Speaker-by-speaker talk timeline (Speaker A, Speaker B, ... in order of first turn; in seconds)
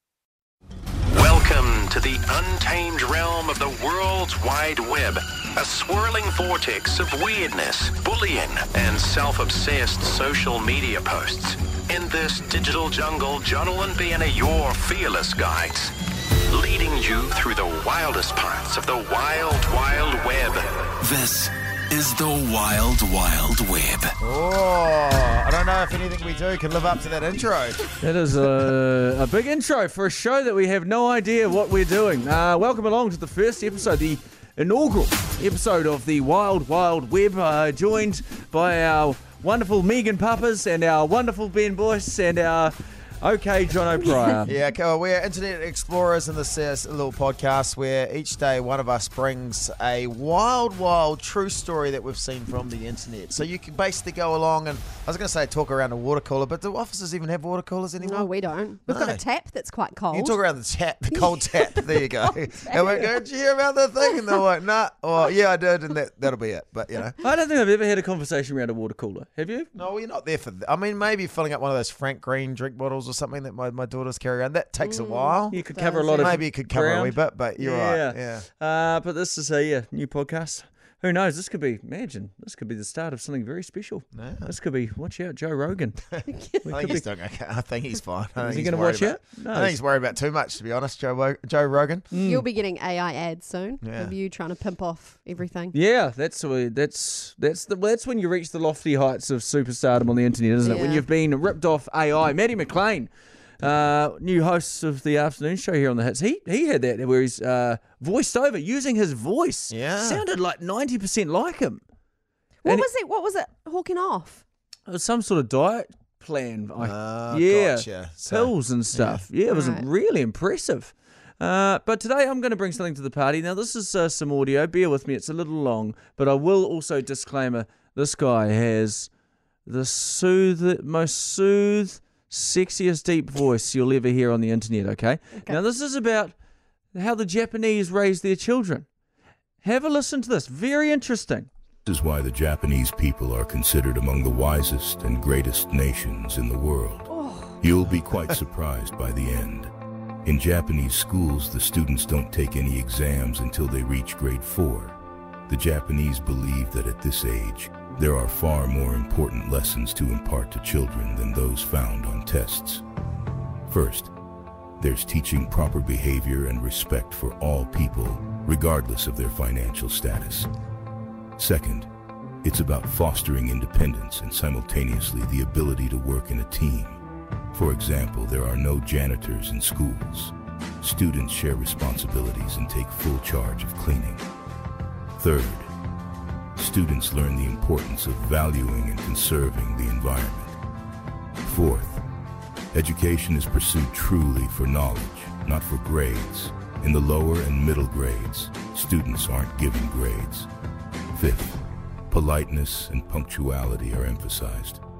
Speaker A: 1.1-15.9, 16.5-21.0
Speaker B: 21.0-24.1
Speaker C: 24.2-27.8, 44.5-58.3, 58.9-59.2, 60.1-67.2, 69.7-75.6, 76.2-78.5, 84.1-84.5, 86.7-92.1, 93.8-94.1, 109.7-110.2, 116.8-119.2
Speaker D: 28.0-44.5, 67.2-69.7, 75.5-86.1, 86.6-87.0, 88.4-89.8, 92.1-92.5, 95.7-103.1, 103.6-111.8, 114.9-129.1, 129.7-136.3, 136.9-138.8, 139.6-141.5
Speaker E: 58.0-63.1, 74.8-76.4, 86.3-87.0, 92.2-95.8, 100.6-101.0, 112.6-114.4, 119.5-119.8, 147.1-147.6
Speaker F: 141.9-147.1, 147.6-149.7, 150.2-155.0, 155.5-162.8, 163.7-164.1, 164.8-170.5, 171.4-171.9, 172.4-177.0, 177.5-184.2, 185.2-185.7, 186.6-190.6, 191.4-192.0, 192.7-200.5, 201.1-201.6, 202.1-204.8